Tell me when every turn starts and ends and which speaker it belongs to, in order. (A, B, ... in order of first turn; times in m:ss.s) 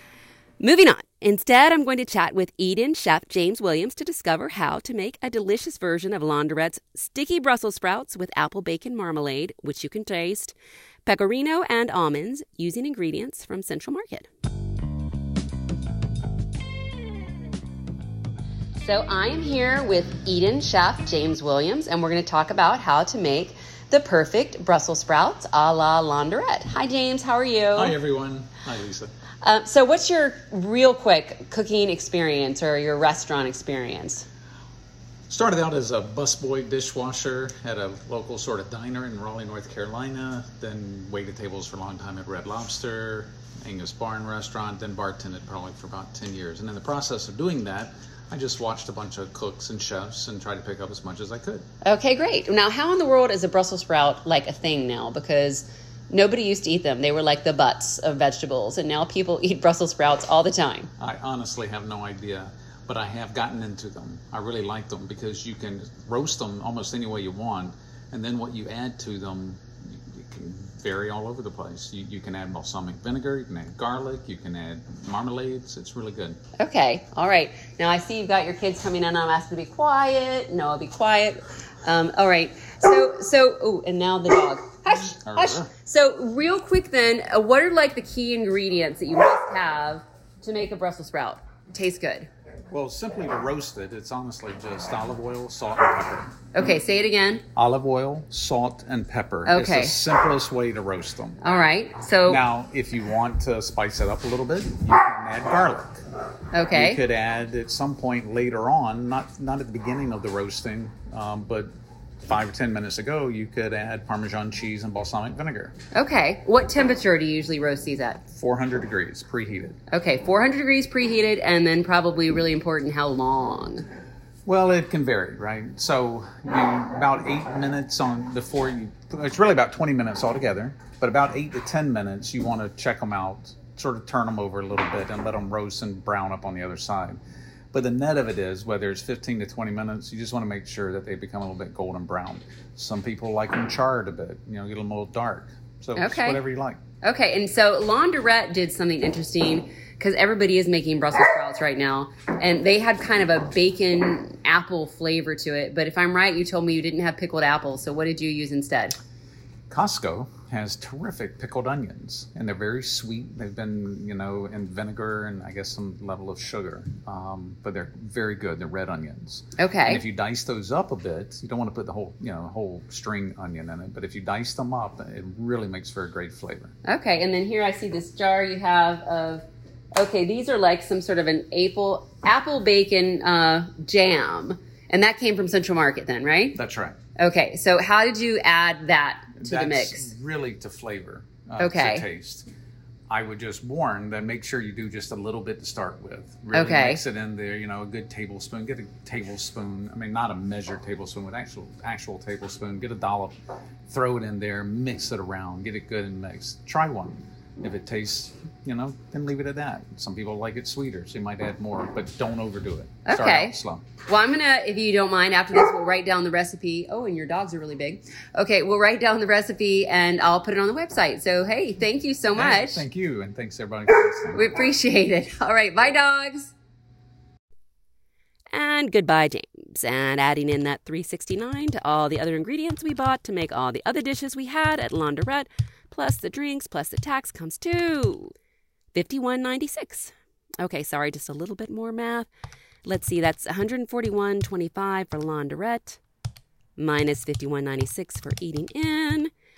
0:00.6-0:14.3 A
0:18.8-0:27.9 A
0:27.8-0:29.1 B
0:29.4-0:34.2 A
0:35.3-0:51.6 B
0:51.8-1:00.9 A
1:01.0-1:16.4 B
1:16.6-1:32.3 A
1:25.2-1:25.7 B
1:32.7-1:36.3 B
1:36.5-1:37.4 A
1:37.5-1:41.4 B
1:39.4-1:40.0 A
1:41.4-1:42.4 A
1:42.2-1:46.0 B
1:46.5-1:47.0 A
1:46.7-1:51.7 B
1:52.2-1:55.7 B
1:55.9-1:58.2 A
1:58.3-1:59.8 B
1:59.9-2:03.8 A
2:04.4-2:17.2 B
2:17.7-2:26.8 B
2:26.0-2:26.4 A
2:27.0-2:39.0 A
2:39.7-2:56.7 B
2:49.6-2:50.0 A
2:56.9-3:06.6 A
3:06.6-3:07.0 B
3:07.2-3:10.1 A
3:09.4-3:12.5 B
3:11.6-3:12.0 A
3:13.1-3:23.3 B
3:16.5-3:17.0 A
3:23.9-3:33.8 B
3:33.0-3:42.8 A
3:42.3-3:44.5 B
3:44.3-3:46.5 A
3:48.5-3:58.3 A
3:58.9-4:02.3 A
4:02.8-4:06.0 A
4:06.8-4:09.3 A